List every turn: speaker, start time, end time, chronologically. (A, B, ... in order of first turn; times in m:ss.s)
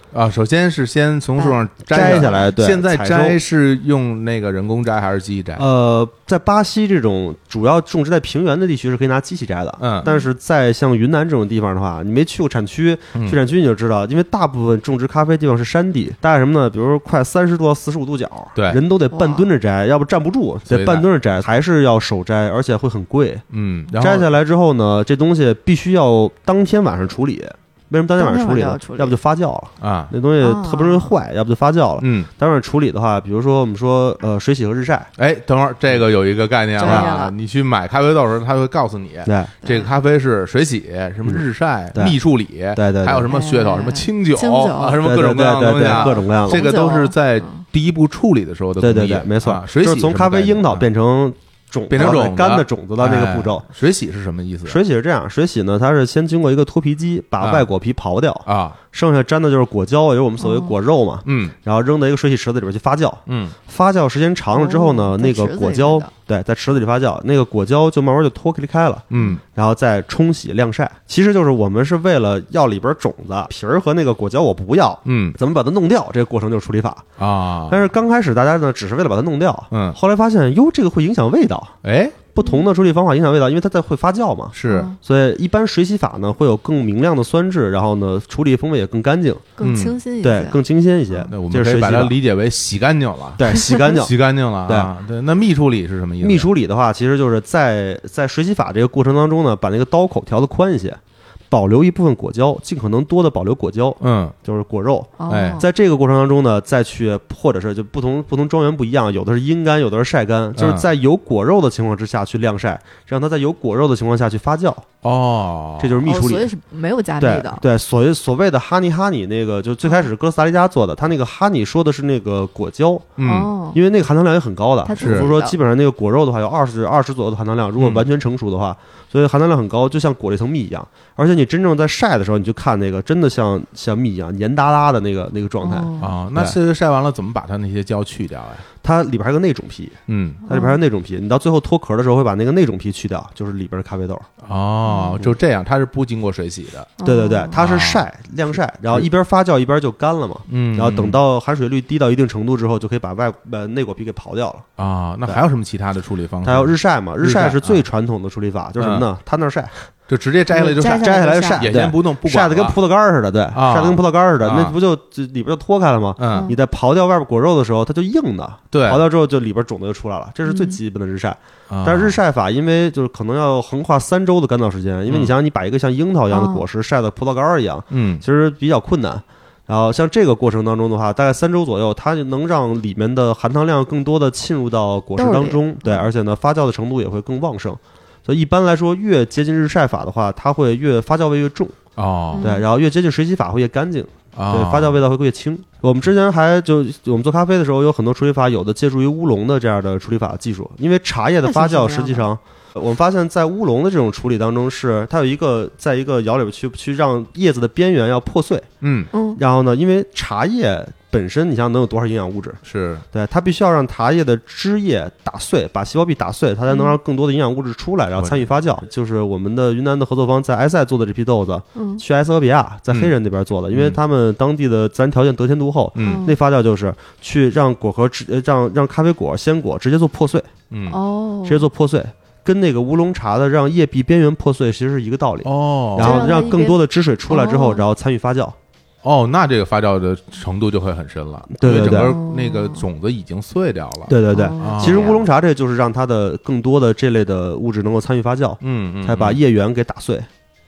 0:00.1-0:05.6 A
0:01.4-0:02.5 B
0:01.9-0:03.4 C
0:05.6-0:23.4 C
0:09.8-0:10.1 A
0:10.0-0:10.3 B
0:19.1-0:19.5 B
0:20.7-0:21.0 A
0:23.5-0:24.3 A
0:24.0-0:35.1 C
0:28.2-0:29.2 B
0:29.8-0:30.1 A
0:30.4-0:31.1 B
0:32.0-0:32.3 A
0:35.2-0:50.9 A
0:36.8-0:37.3 B
0:36.8-0:37.1 C
0:39.2-0:39.5 C
0:39.6-0:39.9 B
0:42.7-0:43.3 C
0:43.3-0:45.0 B
0:45.0-0:46.6 C
0:45.8-0:47.6 B
0:48.8-0:53.6 C
0:51.9-0:54.8 A
0:54.6-1:17.0 C
0:57.4-0:57.7 A
0:58.4-0:58.8 A
1:00.4-1:00.7 B
1:01.2-1:01.5 A
1:03.2-1:03.6 A
1:04.5-1:06.1 B
1:09.1-1:09.4 A
1:09.1-1:09.4 B
1:15.0-1:15.4 A
1:17.2-1:17.9 A
1:17.7-1:21.7 C
1:19.7-1:20.0 A
1:21.8-1:22.2 A
1:22.3-1:29.5 C
1:22.4-1:22.6 B
1:24.5-1:24.9 A
1:24.7-1:25.0 B
1:29.6-1:30.6 B
1:29.6-1:30.0 A
1:30.2-1:32.1 C
1:31.3-1:36.5 A
1:33.4-1:34.1 C
1:34.6-1:34.9 C
1:36.2-1:41.0 C
1:41.5-1:54.8 C
1:44.0-1:44.3 A
1:45.2-1:45.6 B
1:45.3-1:45.6 A
1:50.6-1:50.9 A
1:55.0-1:56.0 A
1:55.8-1:56.5 C
1:56.0-1:57.6 B
1:57.2-2:03.1 C
2:03.2-2:03.5 A
2:03.2-2:03.8 B
2:03.7-2:16.6 C
2:04.8-2:05.6 B
2:05.0-2:05.3 A
2:07.8-2:08.0 A
2:15.6-2:16.2 B
2:16.0-2:18.6 A
2:18.8-2:24.3 C
2:20.1-2:20.4 A
2:20.5-2:20.8 B
2:24.4-2:26.9 A
2:24.8-2:25.2 B
2:27.0-2:27.5 B
2:27.0-2:34.6 C
2:27.5-2:29.1 A
2:30.5-2:31.2 A
2:34.8-2:37.8 A
2:36.4-2:39.9 C
2:38.8-2:39.0 A
2:40.1-2:42.8 A
2:40.5-2:41.7 B
2:41.0-3:11.8 C
2:43.5-2:44.8 A
2:46.2-2:46.5 A
2:46.3-2:46.6 B
2:48.7-2:49.0 A
2:50.4-2:50.8 B
2:51.7-2:52.2 A
2:55.1-2:55.3 A
2:56.3-2:56.6 B
2:57.9-2:58.2 A
3:05.2-3:06.1 B
3:12.0-3:12.5 A
3:12.3-3:12.6 B
3:12.4-3:28.7 C
3:14.3-3:15.0 A
3:21.4-3:22.2 B
3:28.8-3:29.1 A
3:29.1-3:29.4 B
3:29.3-3:32.6 C
3:32.6-3:33.0 A
3:33.1-3:50.5 C
3:36.7-3:37.0 B
3:38.2-3:38.5 A
3:41.7-3:42.0 B
3:43.7-3:44.0 A
3:45.9-3:46.3 A
3:46.0-3:46.4 B
3:50.7-3:51.0 A
3:50.9-3:51.7 B
3:51.4-3:58.6 C
3:55.4-3:56.3 A
3:56.0-3:57.8 B
3:59.0-4:05.2 A
4:01.5-4:02.1 C
4:01.8-4:02.8 B
4:04.1-4:10.3 C
4:04.3-4:05.2 B
4:08.6-4:09.4 A